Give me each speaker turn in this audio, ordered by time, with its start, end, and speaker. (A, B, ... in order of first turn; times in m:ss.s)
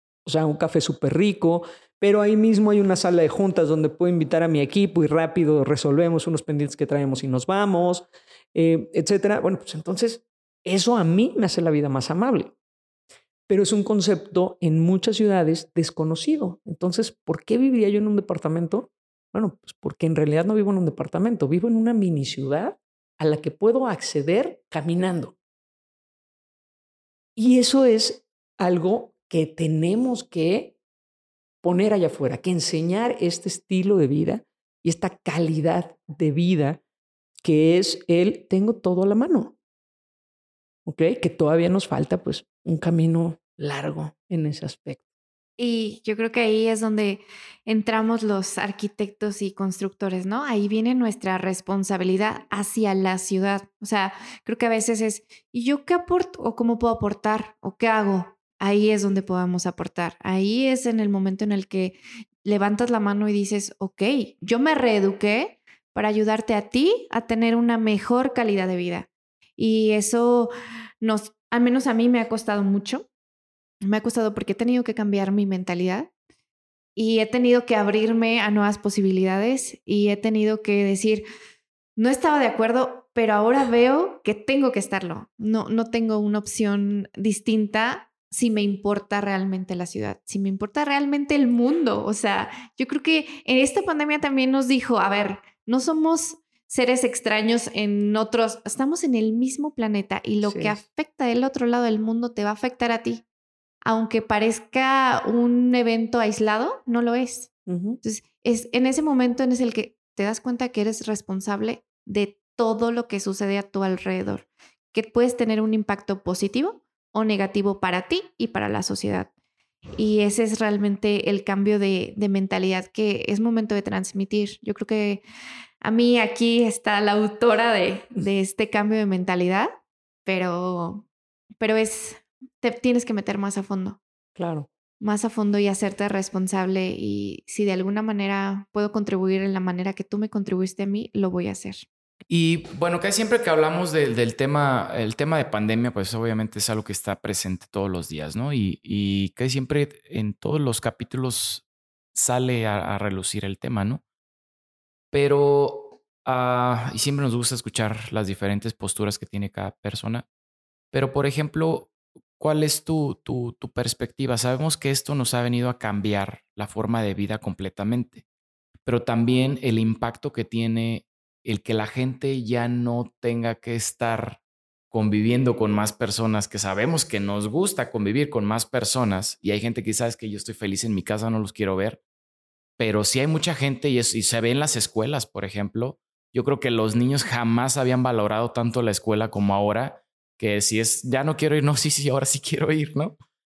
0:00.2-0:12.5 A
0:13.5-0:25.4 A
0:27.4-0:30.8 A
0:31.6-0:36.8 A
0:37.4-0:39.6 A
0:40.8-0:45.0 A
0:45.6-1:10.5 B
1:11.0-1:13.1 B
1:13.8-1:16.1 B
1:17.0-1:21.2 B
1:22.0-1:43.2 B
1:40.4-1:40.8 A
1:43.8-1:59.3 B
1:47.7-1:48.0 A
2:00.0-2:05.2 B
2:05.8-2:11.0 B
2:11.6-2:14.0 B
2:14.4-2:14.7 A
2:15.0-2:21.9 B
2:22.3-2:34.0 C
2:35.1-2:40.2 C
2:40.9-2:48.2 C
2:48.8-2:54.4 C
2:54.9-3:02.0 C
3:02.8-3:13.2 C